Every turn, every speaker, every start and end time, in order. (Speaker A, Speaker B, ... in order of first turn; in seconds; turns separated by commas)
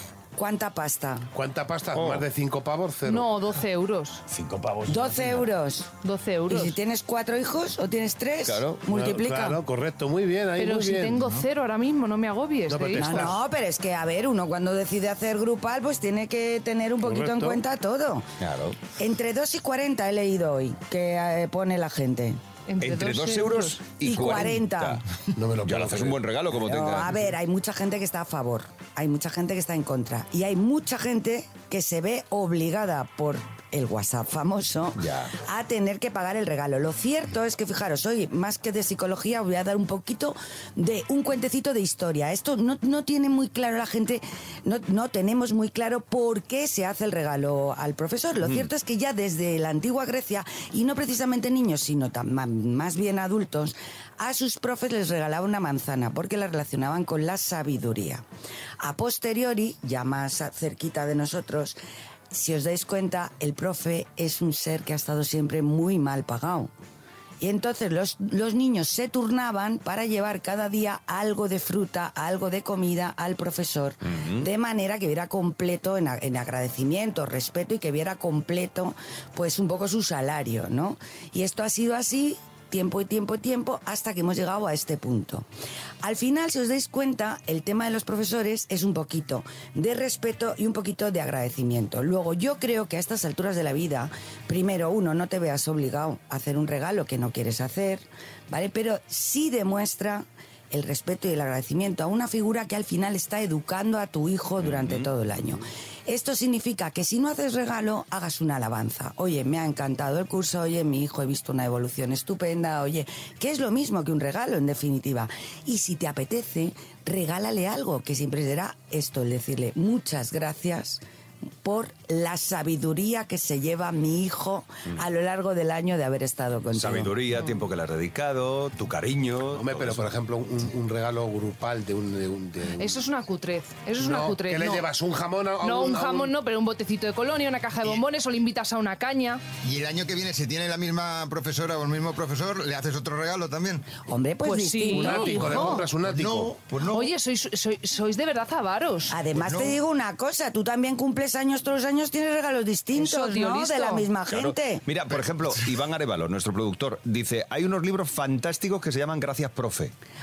Speaker A: 0.3-1.3, Speaker B: 1.3-3.3, Speaker C: 1.9-2.2, Speaker D: 3.0-4.2, Speaker C: 4.3-5.5, Speaker A: 4.9-5.9, Speaker D: 6.0-6.8, Speaker A: 6.5-9.6, Speaker C: 8.4-8.8, Speaker B: 8.9-11.4, Speaker D: 10.6-13.4, Speaker B: 12.7-13.4, Speaker A: 13.0-18.2, Speaker B: 17.0-17.6, Speaker C: 18.4-18.8, Speaker A: 19.0-22.4, Speaker D: 22.7-23.8, Speaker C: 22.8-25.0, Speaker A: 24.0-25.0, Speaker B: 25.3-26.2, Speaker C: 25.6-27.2, Speaker A: 26.6-58.2, Speaker C: 35.0-35.3, Speaker C: 48.4-48.7, Speaker A: 58.8-61.8, Speaker A: 62.3-66.7, Speaker A: 67.4-85.5, Speaker C: 74.1-74.5, Speaker A: 86.0-121.0, Speaker C: 104.6-105.1, Speaker A: 121.6-127.2, Speaker C: 126.7-130.1, Speaker B: 129.5-133.1, Speaker D: 132.8-134.9, Speaker B: 134.0-136.3, Speaker D: 135.6-139.4, Speaker E: 139.6-143.8, Speaker A: 144.0-145.8, Speaker D: 144.4-145.8, Speaker B: 144.9-146.6, Speaker E: 146.0-147.1, Speaker D: 146.9-149.1, Speaker A: 149.1-154.8, Speaker E: 149.3-149.8, Speaker D: 152.9-154.1, Speaker C: 154.3-159.9